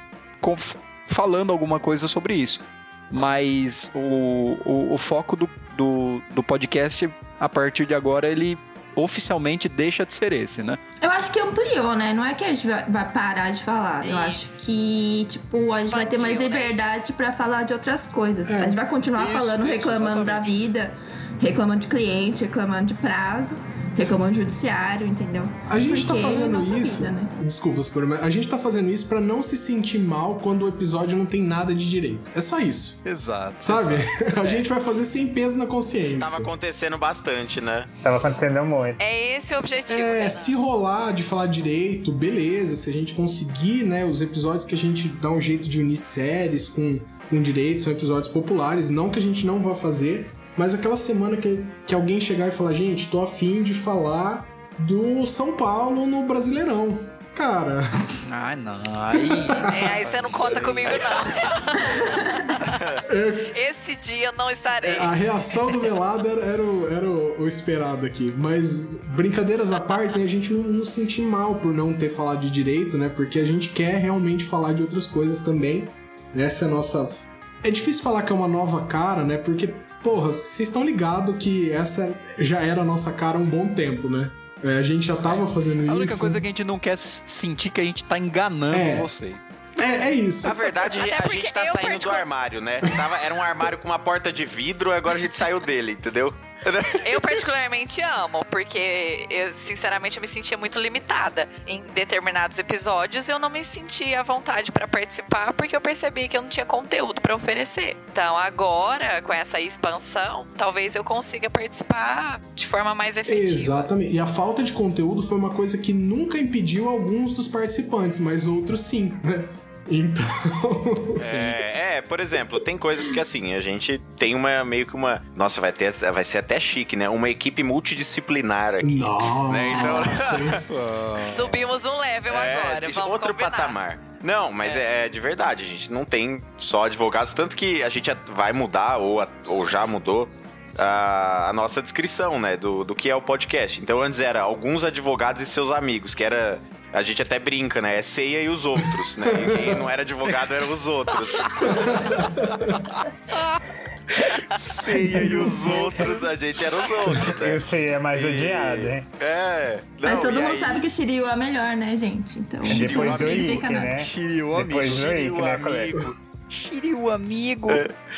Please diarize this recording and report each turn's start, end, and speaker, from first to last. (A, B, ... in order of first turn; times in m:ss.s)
0:00.4-0:10.8 A
0:11.0-0:27.3 B
0:14.0-0:15.0 C
0:15.8-0:17.1 C
0:18.4-0:18.8 D
0:19.1-0:20.6 A
0:25.7-0:33.0 D
0:33.0-0:34.3 A
0:33.6-0:36.5 D
0:36.2-0:37.9 E
0:38.0-0:39.0 F
0:39.0-0:40.5 C
0:39.9-0:58.2 D
0:58.3-1:00.4 A
0:59.1-1:00.0 D
0:59.6-1:02.8 C
1:00.5-1:01.4 E
1:01.7-1:02.5 B
1:03.0-1:03.5 D
1:03.5-1:05.2 C
1:04.8-1:26.4 D
1:25.8-1:29.4 A
1:28.7-1:29.1 D
1:29.8-1:30.7 D
1:30.4-1:37.4 E
1:31.0-1:32.3 C
1:37.0-1:53.9 C
1:53.3-2:01.3 D
2:01.2-2:01.6 A
2:01.2-2:10.6 E
2:08.8-2:10.6 D
2:10.6-2:11.6 A
2:11.2-2:13.8 C
2:12.3-2:32.3 E
2:29.2-2:29.9 D
2:31.6-2:32.7 D
2:33.3-2:33.6 A
2:34.5-2:36.2 A
2:34.9-2:40.8 E
2:35.0-2:35.8 D
2:37.3-2:39.0 F
2:40.0-2:44.0 B
2:42.7-2:46.0 F
2:42.7-2:43.6 E
2:43.4-2:45.2 A
2:44.8-2:46.1 E
2:46.5-2:47.8 A
2:47.7-2:47.9 E